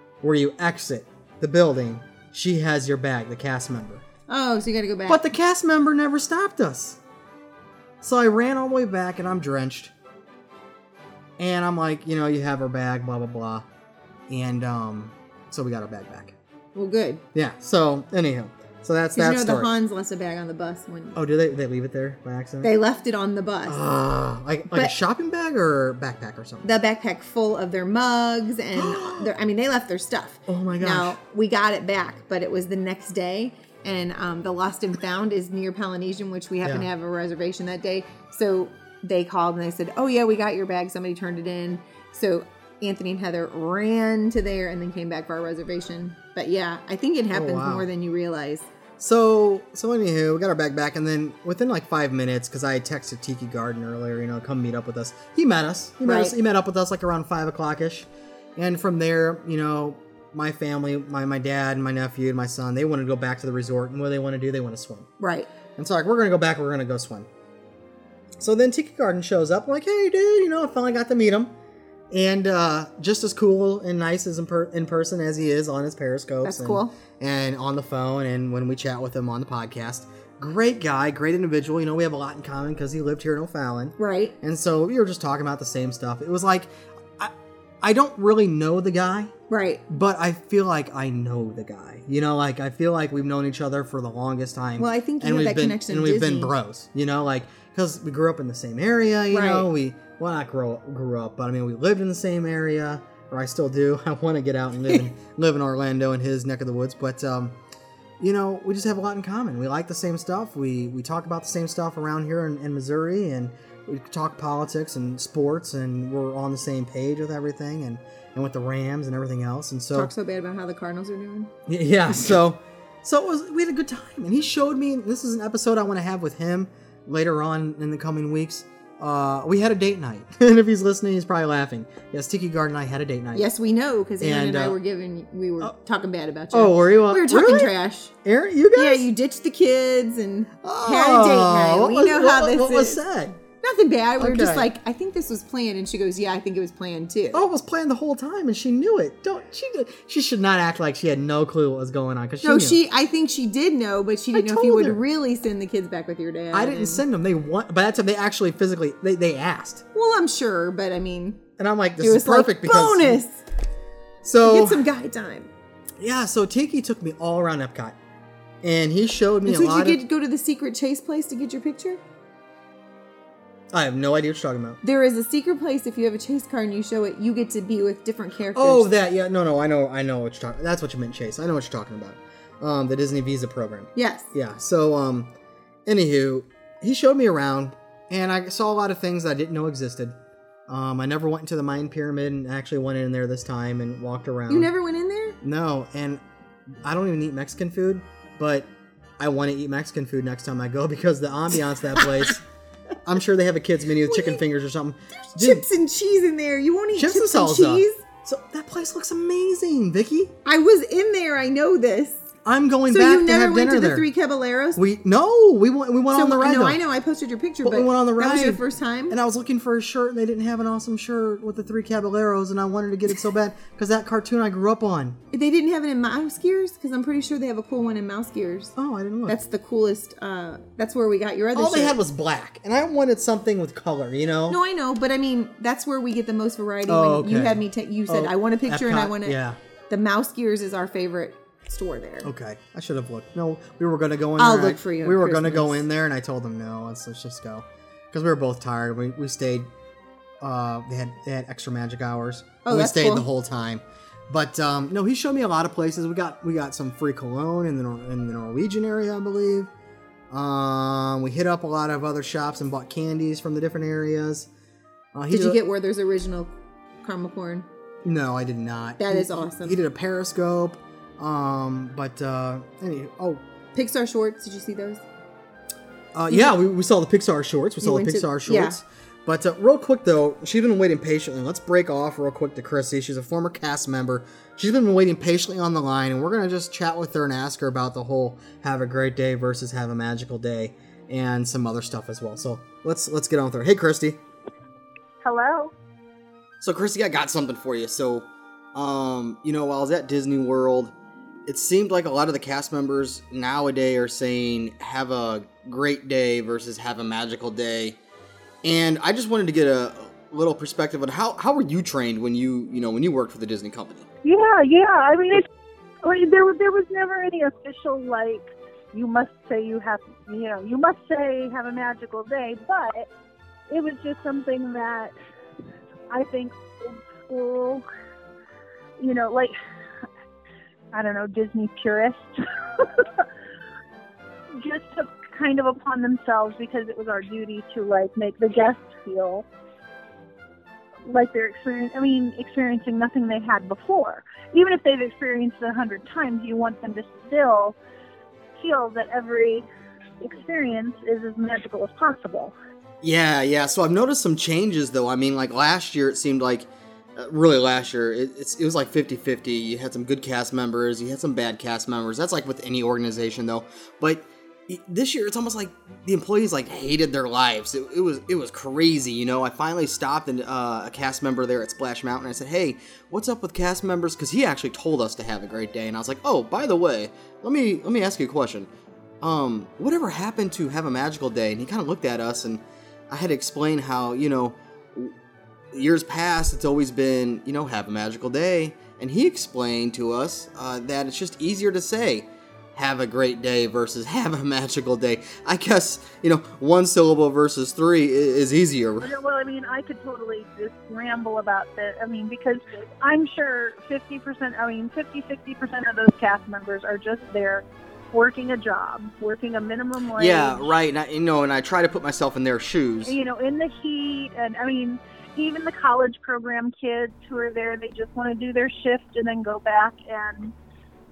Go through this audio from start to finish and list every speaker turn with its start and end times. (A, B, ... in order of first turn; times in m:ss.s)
0:00.2-0:04.0 A
0:04.3-0:05.2 B
0:05.1-0:07.0 A
0:08.0-0:09.9 A
0:11.4-0:13.7 A
0:14.3-0:16.4 A
0:16.8-0:17.2 B
0:17.4-0:19.7 A
0:19.2-0:21.2 B
0:21.2-0:22.7 A
0:22.6-0:23.8 B
0:23.7-0:26.7 A
0:26.6-0:48.7 B
0:28.8-0:29.3 A
0:30.5-0:31.2 A
0:36.6-0:36.9 A
0:47.3-0:47.9 A
0:49.0-1:05.1 A
0:56.0-0:56.4 B
1:05.2-1:05.5 B
1:05.8-1:07.3 A
1:08.4-1:11.5 A
1:12.1-1:29.3 A
1:16.4-1:17.0 B
1:24.0-1:24.4 B
1:29.5-1:29.8 B
1:29.9-1:47.6 A
1:34.8-1:36.5 B
1:39.3-1:39.7 B
1:48.2-2:00.1 A
1:59.9-2:01.5 B
2:01.7-2:13.5 A
2:13.3-2:18.1 B
2:14.2-2:14.8 A
2:16.5-2:19.1 A
2:18.7-2:23.0 B
2:20.6-2:23.4 A
2:23.6-2:27.4 B
2:24.2-2:24.7 A
2:27.3-2:32.8 A
2:32.4-2:37.0 B
2:34.3-2:35.0 A
2:36.5-2:39.8 A
2:39.9-2:41.4 B
2:41.6-2:43.2 A
2:42.0-2:43.4 B
2:44.2-2:44.8 A
2:44.4-2:45.5 B
2:46.0-2:48.0 A
2:48.6-2:50.0 A
2:49.4-2:52.0 B
2:53.7-2:54.8 A
2:54.8-2:58.9 B
2:58.5-3:05.3 A
3:04.0-3:04.3 B
3:05.9-3:10.2 A
3:10.7-3:14.7 A
3:14.5-3:15.4 B
3:15.4-3:16.2 A
3:16.8-3:18.7 A
3:19.2-3:22.4 A
3:23.0-3:25.6 A
3:24.0-3:24.4 B
3:25.3-3:28.0 B
3:26.9-3:30.3 A
3:30.4-3:32.2 B
3:32.4-3:34.1 A
3:32.9-3:34.8 B
3:34.8-3:36.8 A
3:36.1-3:39.2 B
3:37.6-3:45.2 A
3:45.3-3:48.8 B
3:48.8-3:49.4 A
3:49.3-3:52.0 B
3:51.6-3:54.6 A
3:54.5-3:59.4 B
3:56.9-3:59.6 A
3:59.9-4:02.3 B
4:02.2-4:09.7 A
4:04.4-4:05.8 B
4:10.4-4:19.7 A
4:12.6-4:13.3 B
4:20.3-4:24.5 A
4:25.1-4:25.6 A
4:25.3-4:26.5 B
4:27.0-4:27.7 B
4:28.0-4:33.4 A
4:29.0-4:29.8 B
4:33.8-4:35.0 B
4:36.2-4:54.2 A
4:37.8-4:38.8 B
4:55.2-4:55.7 C
4:56.6-5:00.9 A
5:01.5-5:08.0 A
5:08.6-5:14.1 A
5:14.2-5:15.4 C
5:16.0-5:23.1 C
5:23.7-5:25.1 C
5:26.1-5:27.8 C
5:29.0-5:29.5 C
5:30.9-5:33.3 C
5:34.6-5:39.5 C
5:41.1-5:47.8 C
5:48.6-5:49.7 C
5:50.2-5:52.6 C
5:53.0-6:18.7 A
6:19.2-6:25.2 A
6:25.7-6:39.2 A
6:39.0-6:50.7 C
6:50.2-6:53.2 A
6:53.0-7:00.5 C